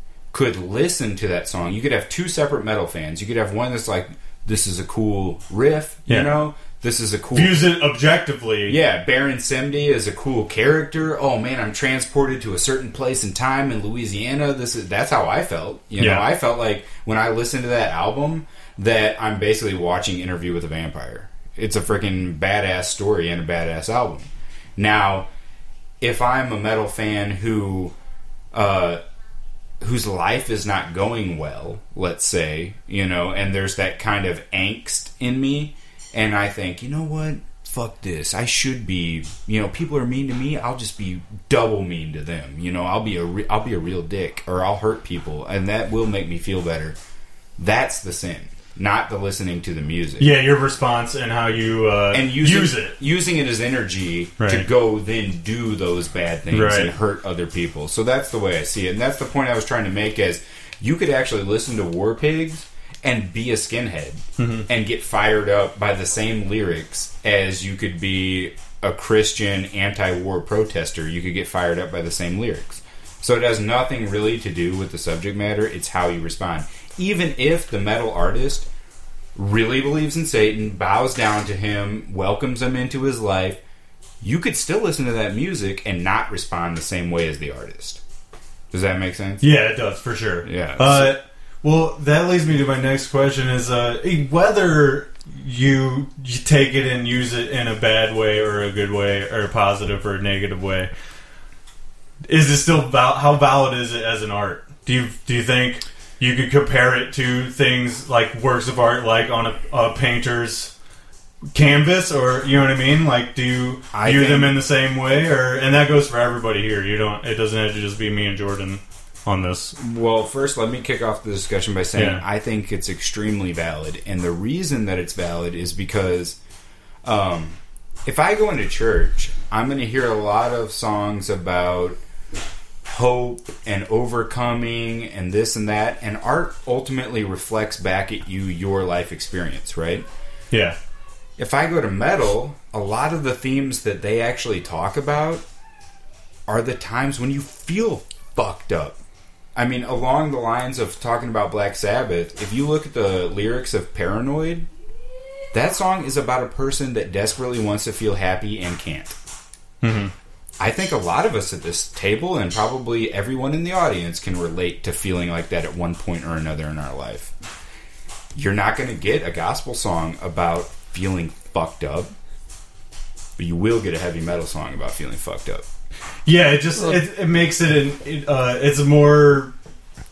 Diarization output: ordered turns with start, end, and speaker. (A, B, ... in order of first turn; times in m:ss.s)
0:00.3-0:07.7 A
0:06.1-0:06.4 B
0:07.3-0:08.8 B
0:08.7-0:25.3 A
0:16.0-0:16.3 B
0:26.0-0:27.9 A
0:28.5-0:29.0 A
0:29.8-0:47.0 A
0:47.6-0:50.3 A
0:50.2-0:53.0 B
0:52.1-1:18.7 A
0:54.4-0:54.7 B
0:56.5-0:56.9 B
1:04.4-1:04.7 B
1:19.4-1:23.6 A
1:24.2-1:28.0 A
1:28.7-1:29.5 A
1:29.4-1:40.9 B
1:30.4-1:31.2 A
1:42.3-1:50.7 B
1:51.5-1:59.8 B
1:53.9-1:54.6 A
1:59.8-2:06.4 A
2:01.9-2:02.2 B
2:07.0-2:12.0 A
2:12.8-2:20.1 A
2:20.5-2:20.8 B
2:21.4-2:25.4 A
2:26.5-2:29.0 A
2:29.6-2:34.7 A
2:35.5-2:39.2 A
2:39.8-2:40.1 B
2:40.6-2:47.3 A
2:48.3-2:52.1 A
2:53.4-2:55.6 A
2:56.3-2:59.5 B